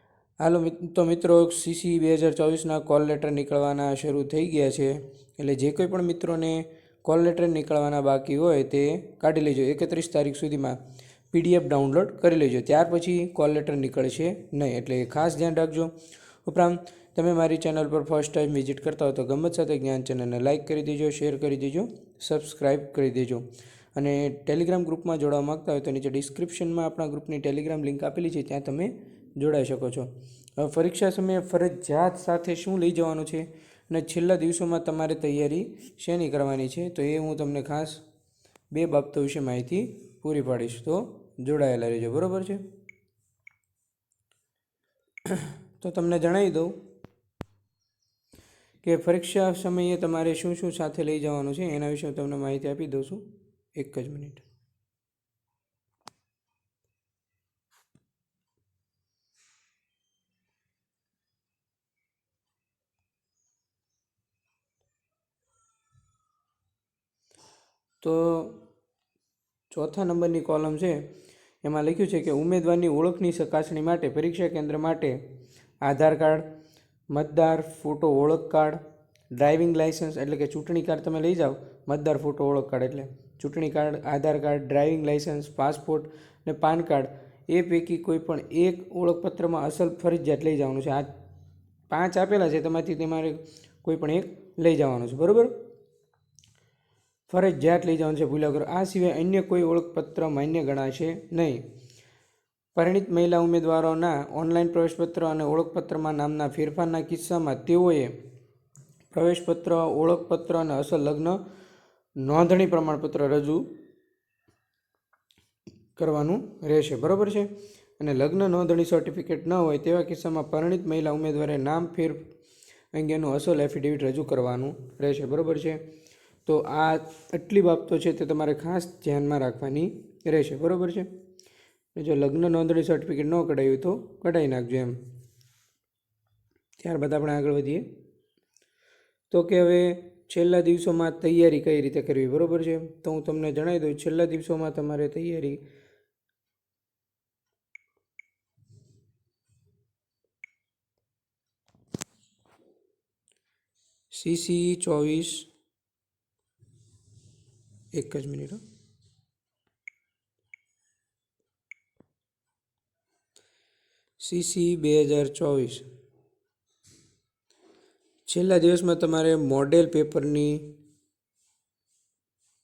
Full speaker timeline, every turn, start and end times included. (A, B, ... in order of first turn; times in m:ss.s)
0:00.4-0:10.8 A
0:11.3-0:15.9 A
0:16.4-0:38.0 A
0:38.7-0:42.6 A
0:45.2-0:46.7 A
0:48.8-0:54.4 A
1:08.0-1:08.6 A
1:09.7-1:11.0 A
1:11.6-1:15.2 A
1:15.8-1:16.4 A
1:17.1-1:18.8 A
1:19.4-1:31.1 A
1:31.9-1:35.5 A
1:37.3-1:41.6 A
1:42.7-1:48.1 A
1:49.1-1:51.4 A
1:52.2-1:53.6 A
1:56.0-2:02.2 A
2:02.9-2:05.8 A
2:06.4-2:11.1 A
2:12.0-2:15.0 A
2:16.8-2:17.8 A
2:19.3-2:25.6 A
2:34.1-2:35.5 A
2:37.9-2:38.6 A
2:44.2-2:45.8 A
2:48.3-2:50.6 A